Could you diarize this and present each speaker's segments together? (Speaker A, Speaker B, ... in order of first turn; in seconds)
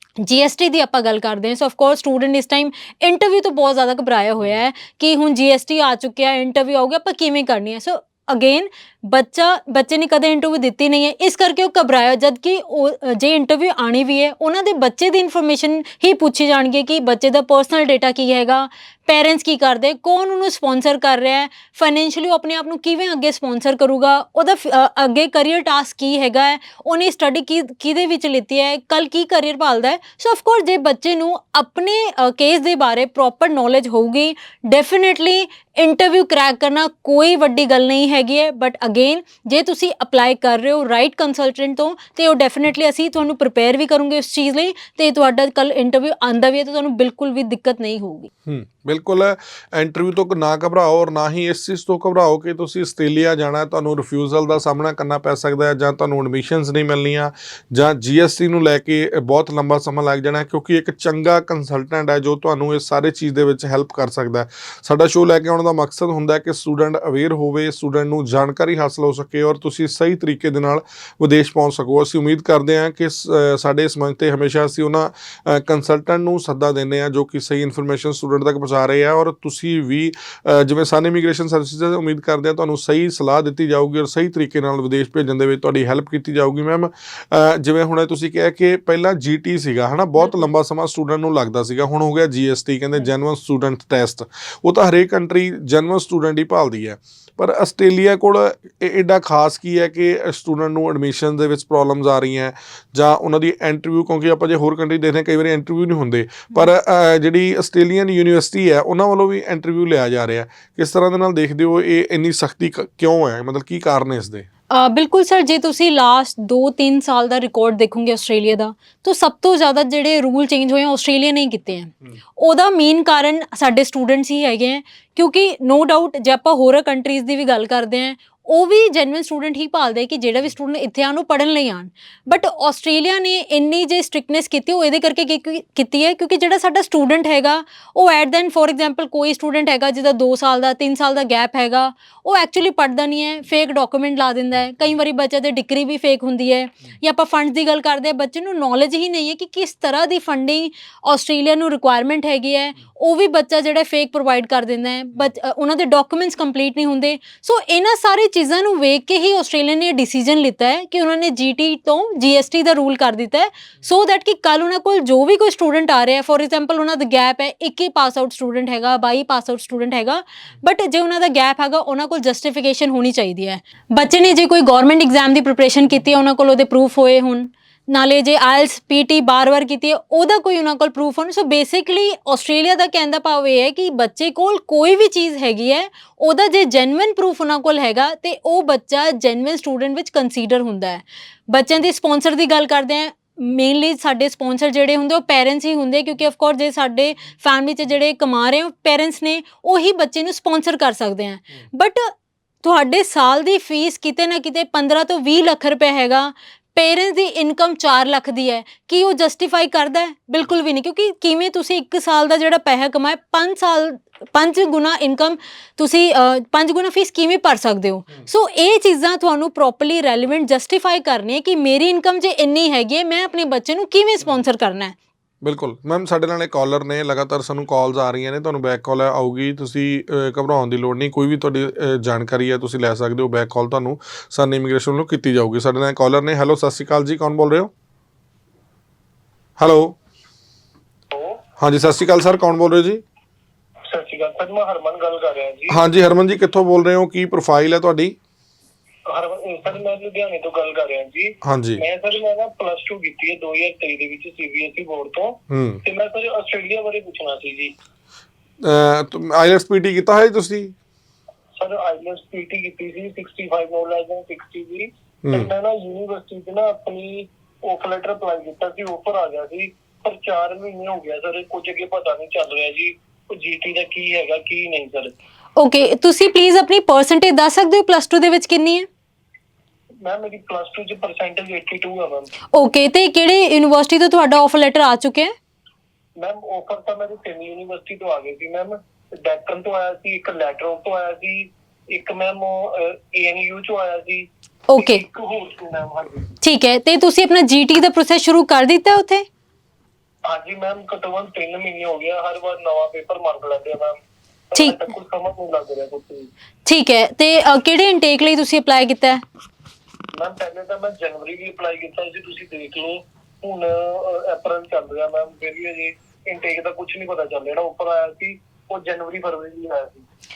Speaker A: 0.2-48.3, 114.7-202.1, 202.6-224.9, 275.6-278.9, 282.5-285.3, 294.7-295.0, 296.4-299.2, 306.6-309.2
Speaker B: 48.5-114.5, 225.4-237.7, 239.6-239.9, 241.6-243.0, 245.7-248.2, 251.4-251.8, 255.5-255.8, 258.6-260.7, 265.2-265.5
Speaker C: 241.1-241.4, 243.9-245.8, 249.1-257.7, 261.6-275.1, 280.0-282.3, 286.2-296.3, 300.2-304.0, 304.5-306.3, 310.1-320.0